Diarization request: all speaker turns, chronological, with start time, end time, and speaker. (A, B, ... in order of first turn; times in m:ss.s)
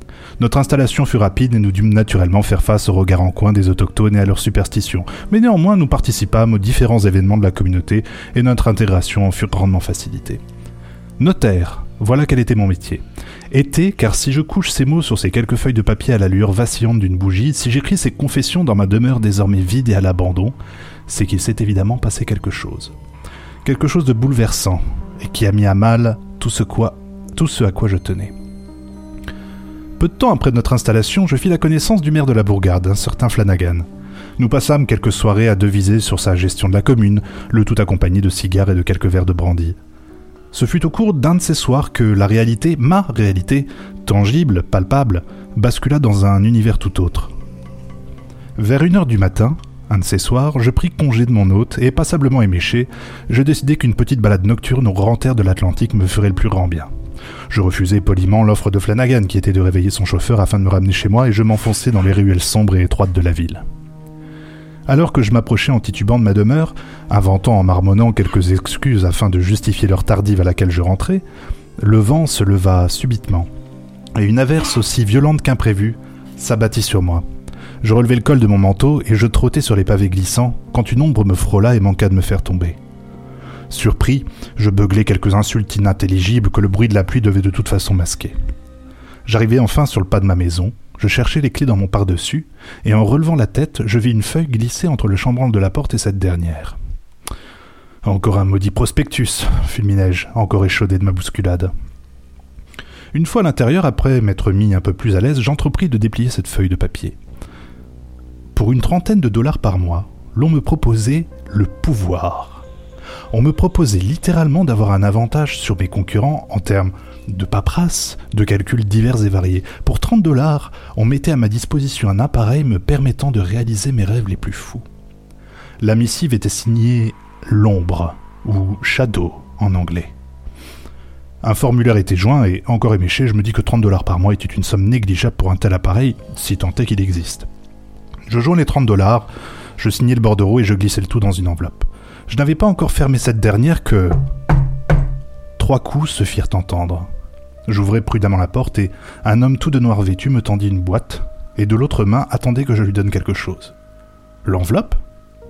0:00.4-0:10.4 A
0:11.2-0:20.6 A
0:21.1-0:22.9 A
0:23.6-0:28.3 A
0:30.0-0:33.8 A
0:34.4-0:39.8 A
0:40.5-0:47.3 A
0:48.6-0:56.9 A
0:57.5-1:03.6 A
1:04.9-1:11.2 A
1:11.8-1:13.5 A
1:14.1-1:17.2 A
1:17.8-1:22.8 A
1:23.7-1:28.4 A
1:29.2-1:36.8 A
1:38.0-1:41.7 A
1:43.1-1:47.2 A
1:48.5-1:52.6 A
1:53.3-2:04.8 A
2:05.8-2:10.1 A
2:11.4-2:17.5 A
2:18.3-2:24.2 A
2:25.6-2:27.1 A
2:27.7-2:33.7 A
2:34.4-2:35.0 A